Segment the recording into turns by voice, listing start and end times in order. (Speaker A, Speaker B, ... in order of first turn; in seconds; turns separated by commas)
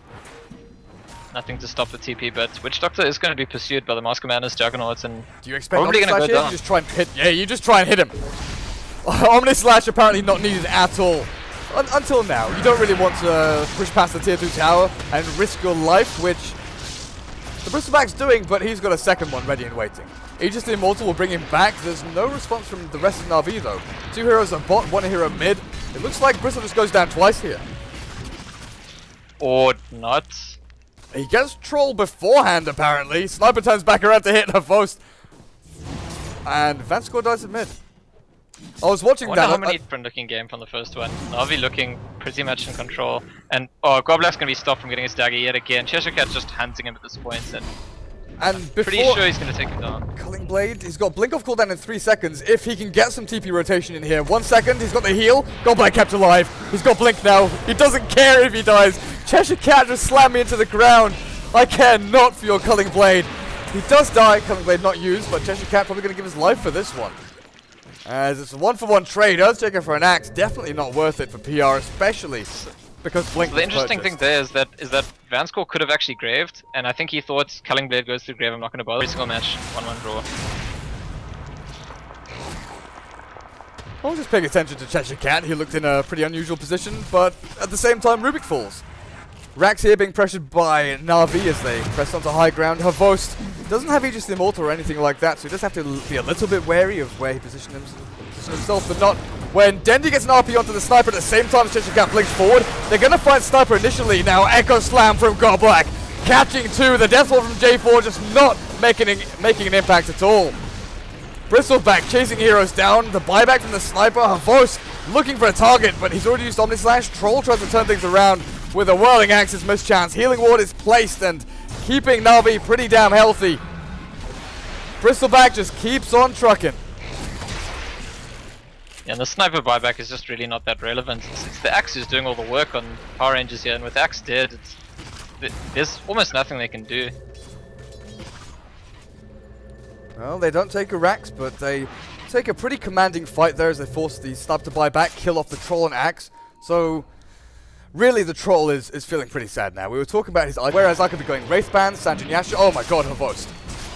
Speaker A: 1.3-6.6, Speaker B: 5.4-8.2, Speaker B: 9.0-16.6, Speaker B: 17.6-27.7, Speaker A: 29.4-30.6, Speaker B: 31.1-35.0, Speaker B: 36.5-37.8, Speaker B: 38.8-39.8, Speaker A: 39.2-47.8, Speaker B: 48.4-49.2, Speaker A: 48.7-50.1, Speaker B: 50.1-67.2, Speaker B: 68.1-74.1, Speaker A: 73.4-80.3, Speaker B: 84.0-88.8, Speaker B: 89.6-110.6, Speaker B: 111.5-123.6, Speaker B: 125.0-126.8, Speaker A: 129.1-134.8, Speaker A: 135.4-137.1, Speaker B: 140.2-147.1, Speaker B: 147.9-153.5